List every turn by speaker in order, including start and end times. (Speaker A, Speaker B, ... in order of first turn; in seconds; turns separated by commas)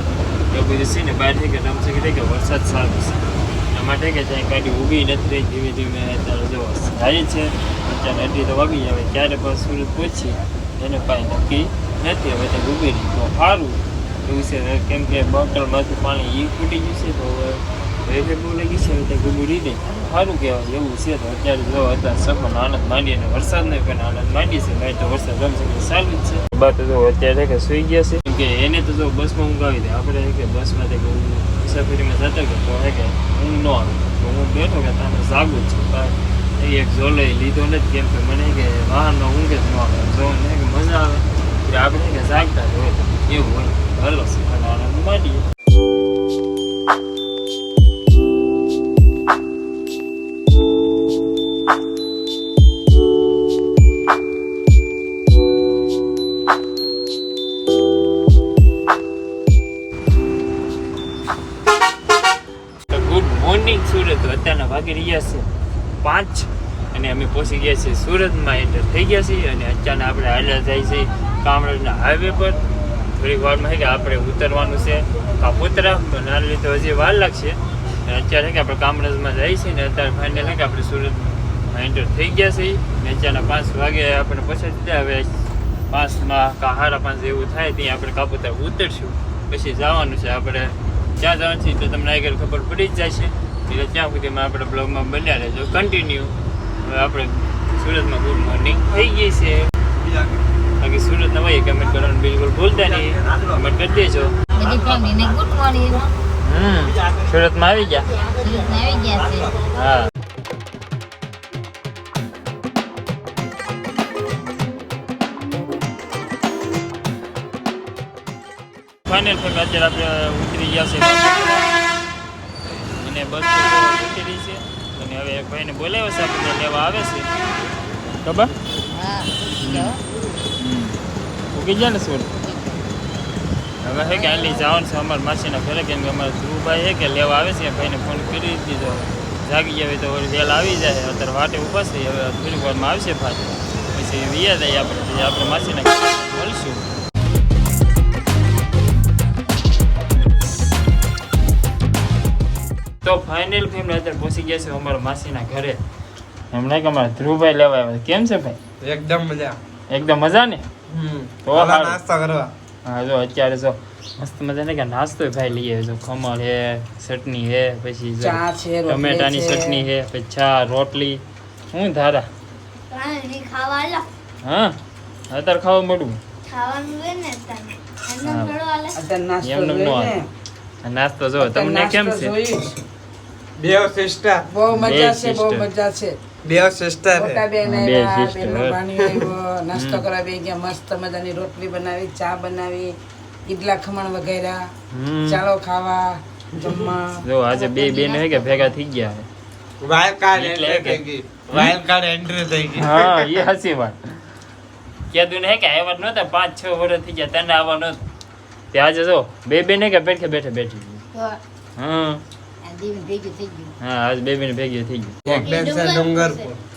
Speaker A: 0.5-45.4, Speaker A: 62.9-65.5, Speaker A: 66.0-72.6, Speaker A: 73.2-85.3, Speaker A: 85.9-96.3, Speaker A: 96.8-99.7, Speaker A: 100.8-104.3, Speaker B: 104.5-106.0, Speaker A: 106.4-108.1, Speaker B: 108.2-109.6, Speaker A: 109.7-110.1, Speaker A: 119.1-121.7, Speaker A: 123.0-127.3, Speaker A: 128.2-128.5, Speaker B: 128.9-130.0, Speaker A: 129.6-129.9, Speaker A: 130.6-131.0, Speaker A: 131.5-132.3, Speaker B: 132.4-132.8, Speaker A: 133.8-146.8, Speaker B: 134.0-134.7, Speaker A: 153.0-155.8, Speaker A: 156.5-158.6, Speaker C: 158.8-159.6, Speaker A: 159.9-160.7, Speaker C: 160.9-162.5, Speaker A: 161.5-162.0, Speaker A: 162.8-171.2, Speaker D: 168.2-169.9, Speaker A: 171.7-172.3, Speaker E: 172.9-174.1, Speaker A: 174.4-174.8, Speaker A: 175.3-176.2, Speaker E: 176.5-179.0, Speaker A: 178.2-178.6, Speaker D: 179.0-180.3, Speaker A: 179.4-180.2, Speaker A: 180.8-182.4, Speaker D: 181.4-182.8, Speaker C: 183.6-184.4, Speaker D: 184.5-186.2, Speaker A: 184.7-185.7, Speaker C: 186.4-187.4, Speaker D: 187.1-192.9, Speaker A: 187.6-188.8, Speaker C: 189.0-189.3, Speaker A: 189.7-190.1, Speaker D: 193.5-194.7, Speaker A: 194.9-195.5, Speaker D: 195.3-197.2, Speaker A: 197.2-199.3, Speaker B: 197.5-198.8, Speaker C: 199.8-203.3, Speaker A: 200.3-201.8, Speaker A: 202.8-204.0, Speaker A: 205.1-208.0, Speaker A: 208.7-211.1, Speaker B: 211.1-211.4, Speaker A: 211.8-212.2, Speaker B: 212.6-213.7, Speaker A: 213.8-215.4, Speaker C: 215.3-216.6, Speaker E: 215.4-216.5